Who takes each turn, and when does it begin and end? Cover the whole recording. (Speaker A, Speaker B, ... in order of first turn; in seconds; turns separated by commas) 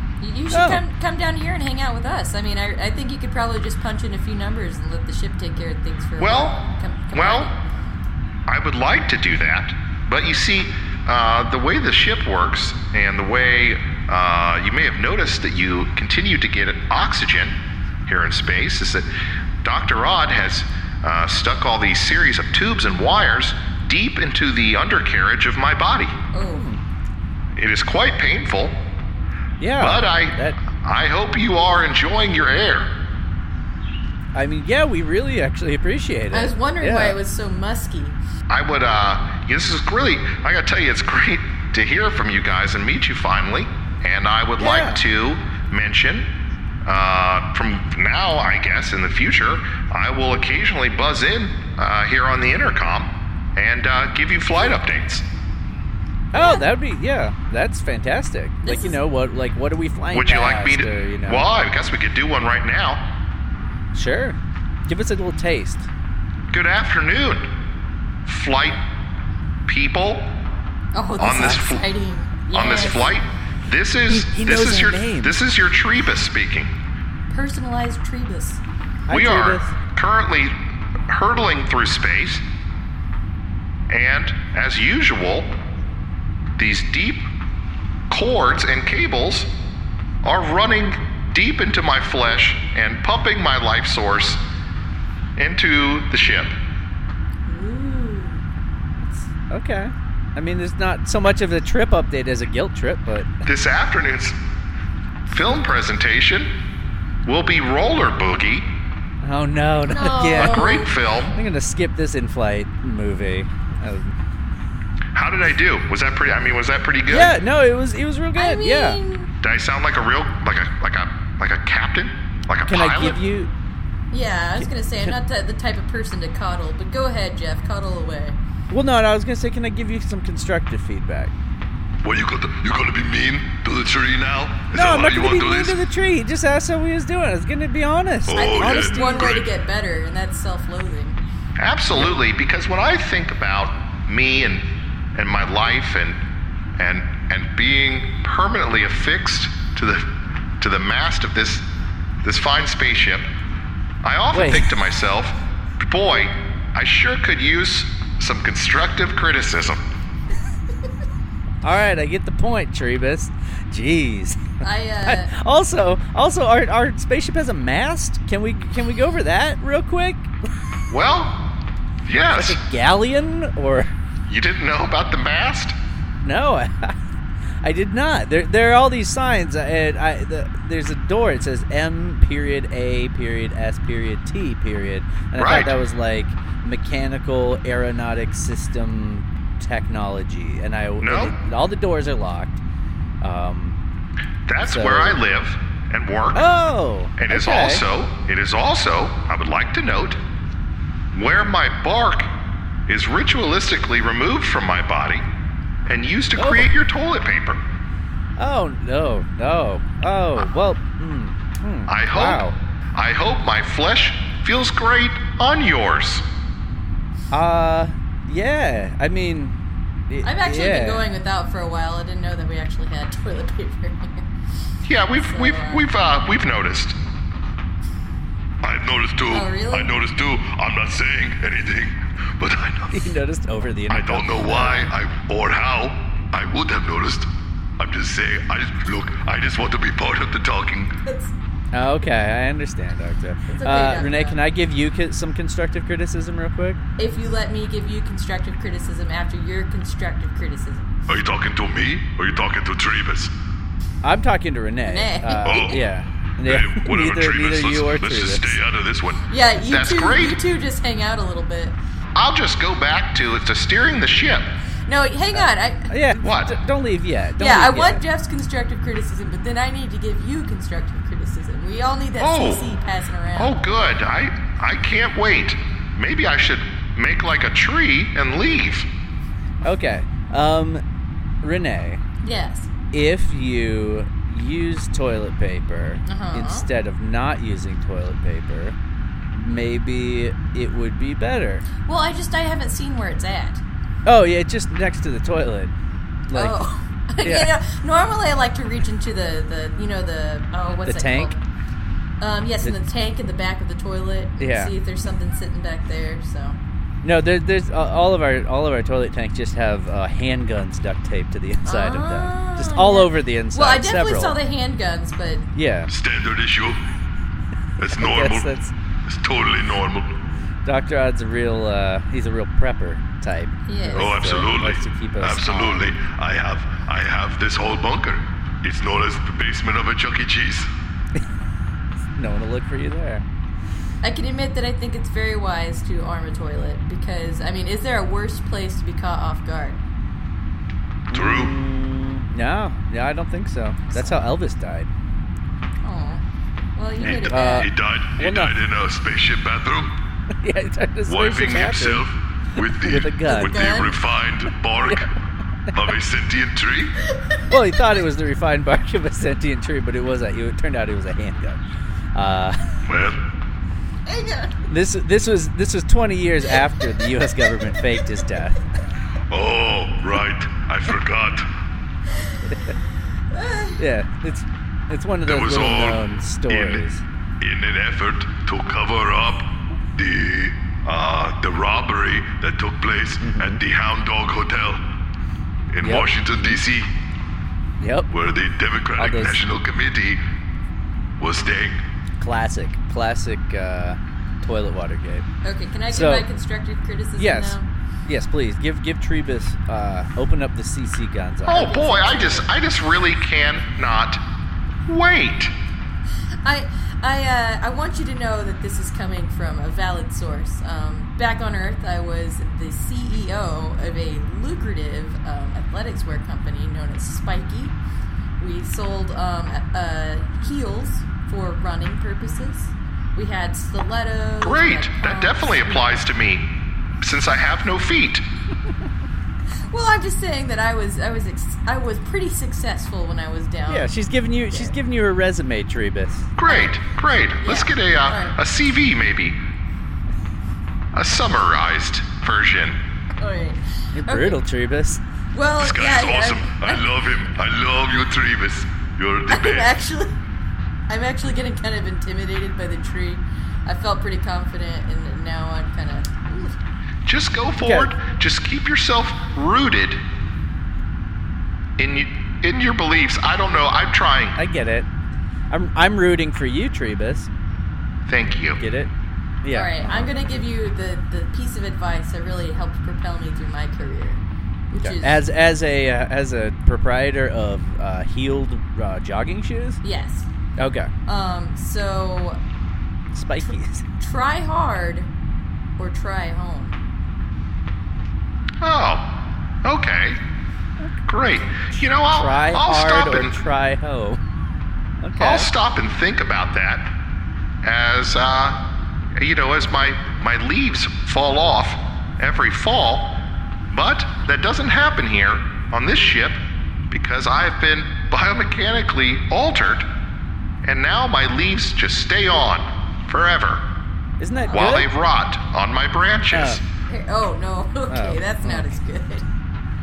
Speaker A: 0.2-7.6, Speaker B: 0.5-0.8, Speaker C: 6.2-6.6, Speaker C: 7.1-7.5, Speaker C: 8.5-17.6, Speaker C: 18.1-19.1, Speaker C: 19.6-26.1, Speaker A: 26.3-26.7, Speaker B: 26.5-26.8, Speaker C: 27.6-28.8, Speaker B: 29.6-30.6, Speaker C: 29.8-32.9, Speaker B: 34.3-37.2, Speaker A: 36.3-38.2, Speaker C: 38.5-46.3, Speaker B: 44.6-45.0, Speaker C: 46.8-55.2, Speaker A: 56.3-56.7, Speaker B: 56.3-61.5, Speaker A: 58.6-59.0, Speaker C: 60.1-63.0, Speaker B: 63.9-65.9, Speaker C: 66.5-67.5, Speaker C: 68.2-68.8, Speaker C: 69.7-70.3, Speaker A: 70.9-73.2, Speaker C: 71.2-71.8, Speaker B: 71.4-71.6, Speaker C: 72.5-76.7, Speaker B: 74.1-75.4, Speaker A: 77.3-78.6, Speaker B: 79.1-79.7, Speaker C: 79.1-80.5, Speaker C: 81.1-82.4, Speaker C: 83.9-85.5, Speaker C: 86.6-87.3, Speaker C: 88.1-89.5, Speaker C: 90.2-94.4, Speaker C: 95.4-96.5, Speaker A: 97.5-98.4, Speaker B: 99.0-103.4, Speaker C: 103.4-104.4, Speaker C: 105.3-106.5, Speaker C: 107.2-108.7, Speaker B: 109.2-110.8, Speaker A: 109.9-111.0, Speaker C: 110.3-111.4, Speaker B: 111.3-114.2, Speaker C: 115.2-117.3, Speaker B: 117.1-119.0, Speaker A: 118.3-119.3, Speaker C: 119.4-123.2, Speaker B: 122.7-123.5, Speaker A: 124.1-128.4, Speaker B: 124.6-125.2, Speaker B: 128.7-131.3, Speaker D: 132.0-135.8, Speaker B: 134.7-139.4, Speaker D: 138.3-139.4, Speaker A: 138.3-141.2, Speaker C: 141.6-146.2, Speaker C: 146.8-151.7, Speaker C: 152.2-153.3, Speaker C: 154.0-159.8, Speaker B: 154.3-154.7, Speaker B: 161.6-170.3, Speaker A: 164.6-165.3, Speaker C: 170.9-171.4, Speaker C: 172.1-172.6, Speaker B: 172.3-173.9, Speaker C: 174.3-175.7, Speaker B: 176.2-176.9, Speaker B: 177.6-192.6, Speaker C: 185.3-185.7, Speaker C: 191.0-191.4, Speaker B: 193.2-193.8, Speaker C: 194.5-196.5, Speaker B: 194.6-195.2, Speaker B: 196.3-197.8, Speaker C: 197.2-200.2, Speaker C: 201.1-202.3, Speaker C: 202.9-205.2, Speaker C: 205.8-207.6, Speaker B: 206.3-206.7, Speaker B: 208.4-212.6, Speaker C: 211.9-216.2, Speaker B: 217.3-221.0, Speaker A: 220.2-224.3, Speaker C: 224.8-227.0, Speaker A: 225.2-225.8, Speaker D: 228.6-233.0, Speaker A: 229.3-229.9, Speaker B: 232.9-234.9, Speaker D: 233.9-240.9, Speaker A: 241.1-241.3, Speaker B: 241.7-246.8, Speaker A: 243.5-244.3, Speaker A: 247.0-250.9, Speaker D: 251.1-253.3, Speaker B: 254.0-258.6, Speaker A: 254.8-255.8, Speaker D: 255.4-255.8, Speaker D: 256.4-259.3, Speaker A: 259.3-261.8, Speaker C: 259.7-260.4, Speaker C: 262.2-264.5, Speaker A: 264.9-265.9, Speaker B: 265.3-268.0, Speaker C: 266.2-266.6, Speaker A: 267.4-273.6, Speaker C: 272.2-272.7, Speaker C: 273.3-278.9, Speaker B: 279.6-280.8, Speaker B: 281.4-282.0, Speaker A: 282.2-282.7, Speaker B: 282.9-288.8, Speaker A: 286.1-286.7, Speaker B: 289.3-291.6, Speaker A: 291.8-293.6, Speaker B: 294.1-295.7, Speaker B: 296.3-296.6, Speaker A: 296.3-301.4, Speaker B: 297.2-297.5, Speaker B: 300.8-301.3, Speaker A: 302.2-306.6, Speaker B: 304.4-304.7, Speaker B: 307.0-314.4, Speaker A: 311.6-315.5, Speaker B: 315.5-315.9, Speaker D: 315.9-316.8, Speaker D: 317.8-318.5, Speaker B: 317.9-318.7, Speaker D: 319.1-320.2, Speaker B: 320.6-325.9, Speaker A: 323.7-324.4, Speaker D: 323.9-330.7, Speaker B: 332.2-333.2, Speaker A: 334.0-339.8, Speaker B: 341.1-344.9, Speaker D: 341.1-341.6, Speaker A: 345.8-346.2, Speaker A: 346.8-347.7, Speaker D: 347.0-349.9, Speaker B: 347.3-348.6, Speaker B: 350.4-352.1, Speaker D: 351.1-355.1, Speaker B: 352.6-353.7, Speaker A: 353.3-354.0, Speaker B: 354.9-355.1, Speaker D: 355.7-357.0, Speaker B: 357.5-361.6, Speaker B: 362.1-362.6, Speaker D: 362.9-363.2, Speaker A: 364.1-364.6, Speaker B: 364.6-368.6, Speaker D: 369.3-371.5, Speaker B: 372.4-372.8, Speaker A: 373.3-373.8, Speaker B: 373.8-377.0, Speaker D: 375.2-376.8, Speaker D: 377.4-384.8, Speaker B: 383.2-383.6, Speaker D: 385.7-386.9, Speaker B: 385.8-386.6, Speaker B: 387.8-388.1, Speaker D: 388.1-390.2, Speaker B: 389.0-389.4, Speaker D: 391.2-391.8, Speaker B: 392.2-395.2, Speaker A: 395.4-397.7, Speaker B: 395.9-396.3, Speaker B: 397.2-402.4, Speaker C: 401.5-404.2, Speaker A: 401.6-402.4, Speaker C: 404.9-405.5, Speaker A: 406.4-417.8, Speaker A: 418.4-426.0, Speaker C: 424.4-426.5, Speaker C: 427.0-428.2, Speaker A: 429.7-433.9, Speaker B: 433.7-436.3, Speaker C: 436.4-439.4, Speaker A: 436.4-436.8, Speaker A: 437.4-438.4, Speaker C: 440.9-442.8, Speaker A: 443.2-444.4, Speaker B: 443.9-445.0, Speaker A: 445.3-446.8, Speaker D: 445.6-449.7, Speaker A: 449.3-450.1, Speaker A: 450.9-456.6, Speaker C: 457.1-460.0, Speaker B: 457.6-458.0, Speaker C: 461.8-464.4, Speaker B: 464.4-464.9, Speaker B: 465.5-467.3, Speaker C: 468.1-468.6, Speaker B: 468.6-468.9, Speaker B: 469.4-470.1, Speaker A: 469.5-475.2, Speaker B: 474.8-479.8, Speaker A: 479.8-480.3, Speaker B: 480.6-480.9, Speaker A: 481.1-482.4, Speaker B: 483.1-483.8, Speaker A: 484.0-485.1, Speaker A: 485.8-486.8, Speaker C: 488.6-489.1, Speaker C: 489.6-490.2, Speaker C: 491.1-493.4, Speaker B: 491.7-494.2, Speaker B: 495.0-495.5, Speaker C: 495.2-496.9, Speaker C: 497.6-498.6, Speaker C: 499.2-503.2, Speaker C: 503.7-509.9, Speaker C: 510.6-513.6, Speaker B: 514.2-514.9, Speaker C: 514.5-516.6, Speaker B: 516.3-516.6, Speaker A: 516.9-519.2, Speaker B: 517.9-518.7